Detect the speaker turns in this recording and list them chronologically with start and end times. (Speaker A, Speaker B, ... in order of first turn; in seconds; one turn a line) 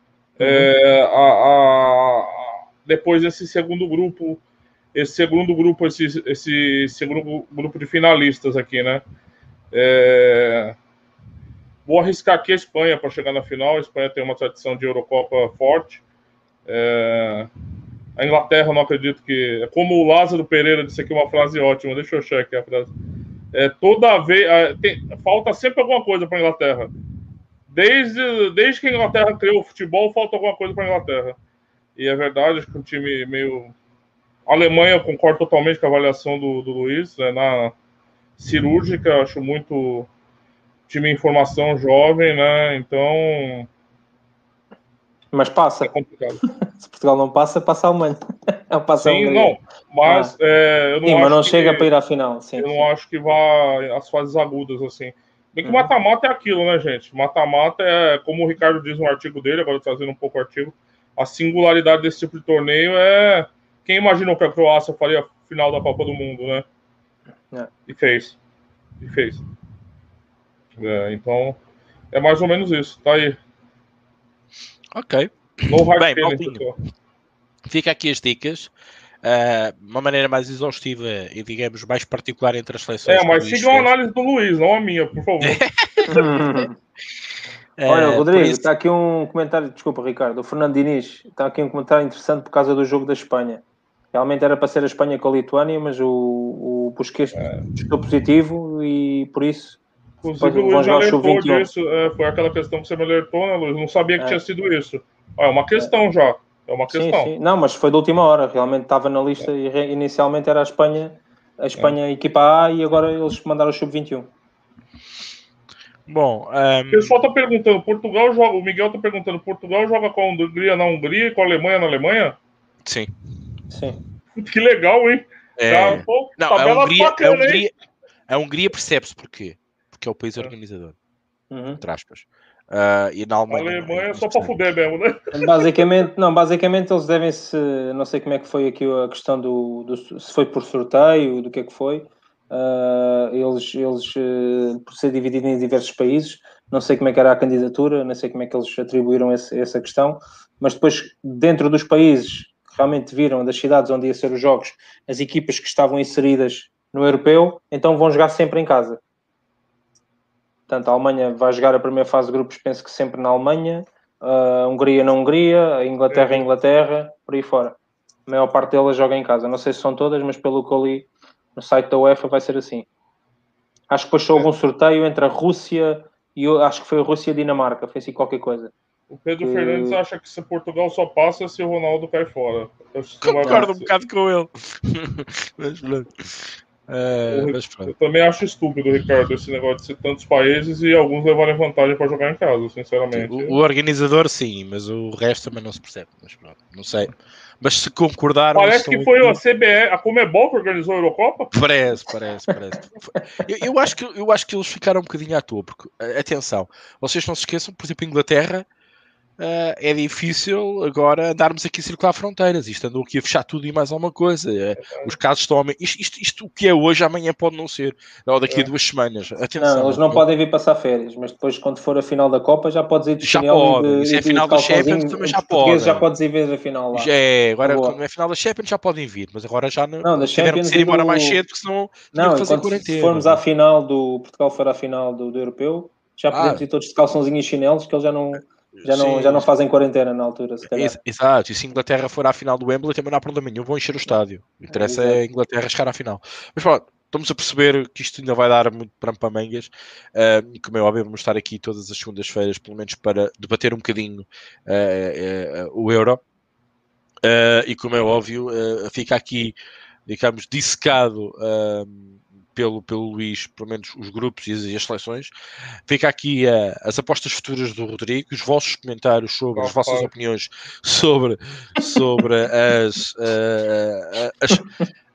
Speaker A: 0.4-4.4
Speaker B: 0.4-0.7
Speaker A: 4.9-9.0
Speaker A: 9.7-10.8
Speaker A: 11.8-16.0
Speaker A: 16.7-17.5
Speaker A: 18.2-22.9
Speaker A: 23.5-26.9
Speaker A: 27.7-31.4
Speaker A: 31.9-33.7
Speaker A: 34.5-37.7
Speaker A: 38.4-40.1
Speaker A: 40.9-43.7
Speaker B: 45.3-45.9
Speaker A: 45.8-46.4
Speaker B: 46.6-48.2
Speaker B: 48.7-50.3
Speaker A: 49.0-51.9
Speaker B: 51.0-52.9
Speaker A: 52.6-66.6
Speaker B: 55.6-55.9
Speaker A: 67.9-68.4
Speaker A: 69.0-69.4
Speaker A: 70.8-71.6
Speaker A: 72.1-73.4
Speaker C: 74.9-76.6
Speaker A: 75.7-76.7
Speaker C: 77.7-78.7
Speaker C: 79.2-83.9
Speaker A: 83.0-85.6
Speaker C: 85.4-86.3
Speaker B: 86.1-86.7
Speaker C: 87.8-88.7
Speaker B: 87.9-99.8
Speaker A: 97.3-97.7
Speaker A: 100.2-107.3
Speaker B: 100.4-101.7
Speaker B: 106.9-114.3
Speaker C: 116.1-117.1
Speaker A: 116.9-122.4
Speaker C: 122.8-123.1
Speaker B: 123.7-124.0
Speaker A: 124.3-127.6
Speaker C: 125.6-127.7
Speaker C: 128.3-130.9
Speaker B: 131.5-131.8
Speaker C: 131.8-134.5
Speaker A: 133.5-135.7
Speaker B: 135.3-159.0
Speaker B: 160.7-172.9
Speaker A: 166.1-166.5
Speaker B: 173.9-178.7
Speaker A: 179.1-183.9
Speaker B: 179.4-180.0
Speaker C: 183.2-187.9
Speaker A: 187.3-193.6
Speaker C: 193.1-199.4
Speaker A: 198.5-201.5
Speaker C: 201.5-208.7
Speaker C: 209.4-220.2
Speaker A: 214.8-215.1
Speaker B: 219.6-227.1
Speaker C: 223.2-226.1
Speaker C: 226.9-233.4
Speaker B: 227.6-228.0
Speaker B: 230.0-231.4
Speaker B: 232.1-241.0
Speaker C: 236.3-236.6
Speaker C: 238.8-239.5
Speaker C: 240.7-256.2
Speaker B: 244.7-245.2
Speaker C: 257.2-265.3
Speaker C: 265.9-274.6
Speaker A: 269.5-270.1